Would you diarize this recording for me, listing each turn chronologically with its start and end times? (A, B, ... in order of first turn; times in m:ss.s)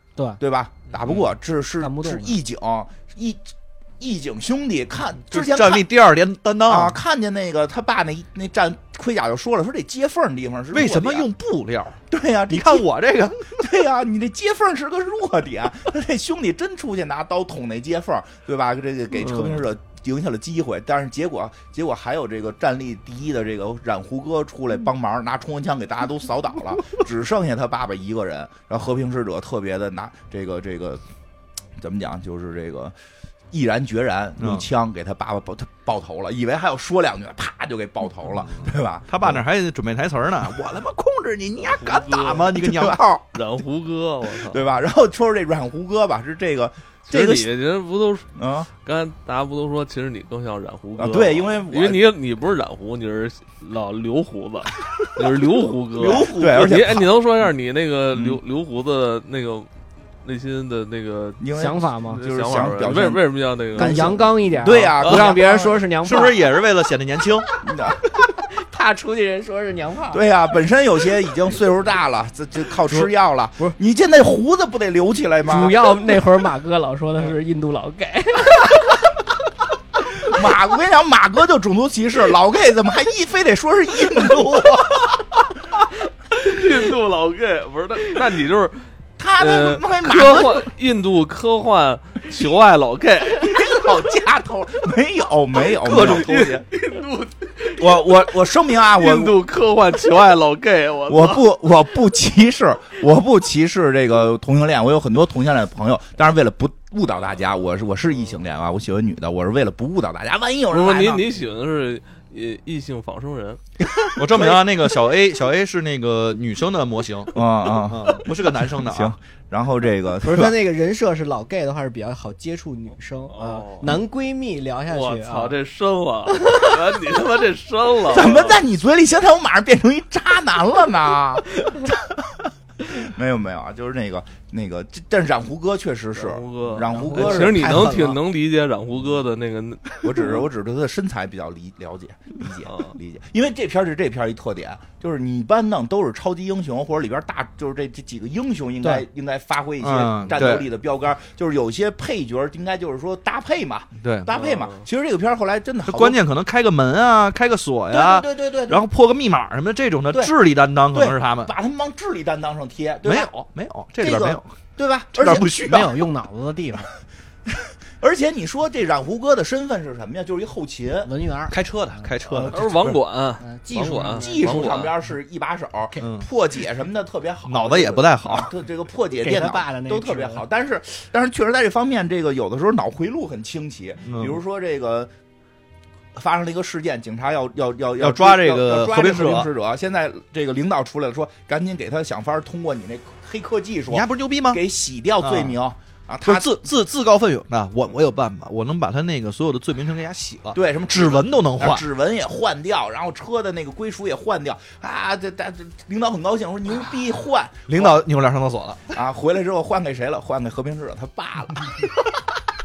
0:00.4-0:05.9 A
0:01.8-0:02.4 B
0:05.3-0:07.0 C
0:06.7-0:11.3 A
0:10.7-0:12.0 C
0:12.1-0:12.9 A
0:12.5-0:13.6 C
0:13.5-0:31.0 A
0:19.2-0:19.6 C
0:31.8-0:33.0 A
0:33.5-0:39.4 A
0:34.4-0:34.7 C
0:39.1-0:43.0 C
0:41.6-0:42.6 D
0:42.5-0:43.2 A
0:43.3-0:44.6 D
0:44.4-0:47.5 A
0:47.1-0:48.3 D
0:48.4-0:48.7 A
0:48.8-0:59.7 D
0:51.0-0:52.0 A
0:56.0-0:57.0 C
0:56.3-0:57.1 A
0:58.1-0:58.4 A
1:00.2-1:04.2 D
1:01.4-1:05.9 A
1:01.5-1:02.2 B
1:03.8-1:06.5 B
1:06.0-1:07.5 C
1:07.5-1:10.2 B
1:07.6-1:08.0 A
1:10.1-1:15.8 A
1:15.5-1:19.0 B
1:20.2-1:25.0 A
1:26.3-1:28.8 D
1:29.2-1:30.7 A
1:29.4-1:33.7 D
1:33.3-1:36.3 A
1:35.8-1:36.6 C
1:35.9-1:41.4 D
1:37.8-1:39.4 A
1:41.1-1:51.3 A
1:50.7-1:53.6 D
1:54.2-1:59.2 C
1:54.3-1:54.6 A
1:57.3-2:00.6 A
2:00.2-2:05.6 B
2:03.3-2:04.0 D
2:04.9-2:08.6 D
2:06.4-2:06.7 B
2:08.0-2:18.0 A
2:16.2-2:20.4 D
2:16.9-2:18.2 B
2:20.0-2:36.2 A
2:22.6-2:22.9 D
2:29.8-2:30.7 C
2:34.0-2:34.3 C
2:34.3-2:34.8 D
2:35.8-2:41.5 C
2:37.9-2:38.9 A
2:40.9-2:43.3 A
2:43.0-2:44.5 C
2:44.0-2:46.0 A
2:45.1-2:45.9 C
2:45.6-2:46.9 B
2:47.5-2:51.1 A
2:51.0-2:52.5 B
2:51.5-2:52.9 C
2:52.4-2:54.9 D
2:52.4-2:53.0 A
2:53.4-2:54.6 B
2:54.1-3:05.1 A
2:56.0-2:56.3 C
2:57.5-2:58.5 C
2:59.2-3:00.4 B
3:04.1-3:04.4 C
3:06.2-3:16.5 A
3:08.0-3:09.5 C
3:13.9-3:14.6 C
3:15.2-3:15.6 C
3:16.2-3:21.8 C
3:20.5-3:28.0 A
3:27.7-3:28.8 C
3:28.9-3:32.1 A